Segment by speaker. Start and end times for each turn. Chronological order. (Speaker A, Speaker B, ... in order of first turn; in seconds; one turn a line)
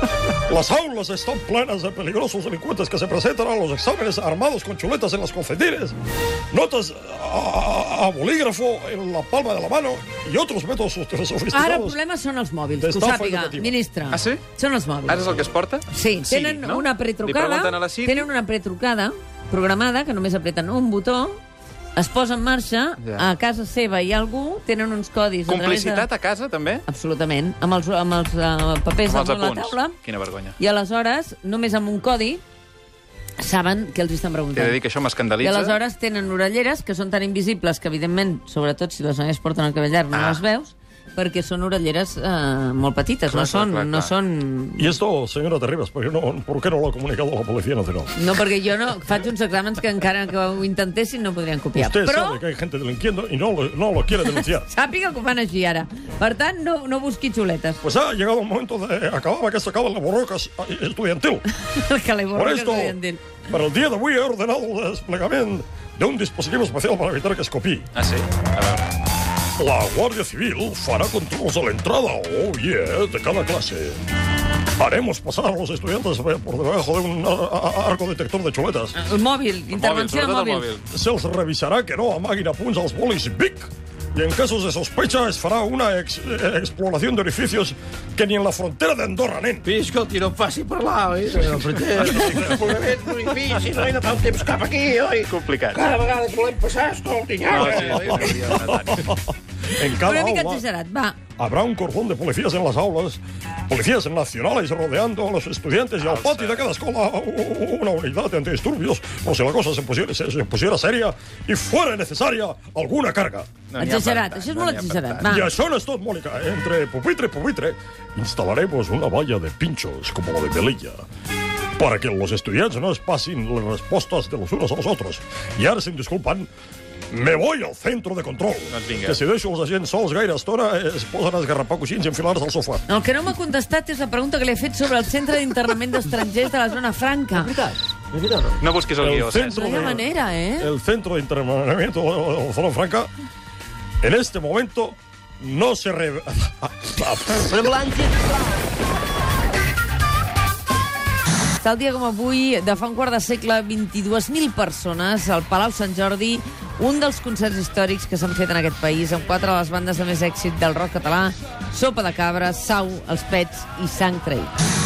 Speaker A: 0.5-6.0
Speaker A: 6.5-12.0
Speaker B: 11.5-15.4
Speaker A: 12.8-13.8
Speaker C: 14.1-14.4
Speaker C: 15.1-18.3
Speaker B: 15.9-21.4
Speaker B: 21.9-26.1
Speaker C: 23.0-23.2
Speaker C: 25.5-26.8
Speaker B: 26.9-29.9
Speaker C: 29.0-30.6
Speaker B: 30.6-32.4
Speaker B: 33.4-34.8
Speaker C: 34.5-35.8
Speaker B: 35.4-44.9
Speaker C: 40.1-40.4
Speaker C: 43.3-44.1
Speaker A: 44.8-48.1
Speaker B: 48.2-52.4
Speaker A: 51.7-54.7
Speaker B: 54.3-57.8
Speaker A: 57.8-61.4
Speaker B: 61.5-63.3
Speaker A: 62.3-63.0
Speaker A: 63.5-67.8
Speaker C: 67.9-68.9
Speaker A: 69.6-74.0
Speaker A: 74.8-78.9
Speaker B: 78.9-80.7
Speaker C: 79.7-80.8
Speaker A: 80.9-89.7
Speaker C: 91.1-92.7
Speaker D: 91.2-94.6
Speaker A: 92.1-92.7
Speaker C: 95.2-95.9
Speaker D: 95.2-98.5
Speaker C: 97.5-99.1
Speaker A: 98.6-100.6
Speaker B: 99.8-101.2
Speaker A: 101.4-113.6
Speaker C: 106.0-106.7
Speaker C: 113.7-115.4
Speaker B: 113.8-115.5
Speaker A: 115.2-121.0
Speaker A: 121.8-126.5
Speaker A: 127.1-132.8
Speaker C: 128.7-129.2
Speaker B: 132.9-137.6
Speaker D: 137.3-138.6
Speaker C: 138.6-139.9
Speaker A: 139.0-140.0
Speaker B: 139.5-140.7
Speaker A: 140.6-143.1
Speaker A: 144.0-147.8
Speaker D: 147.5-148.4
Speaker B: 151.6-164.5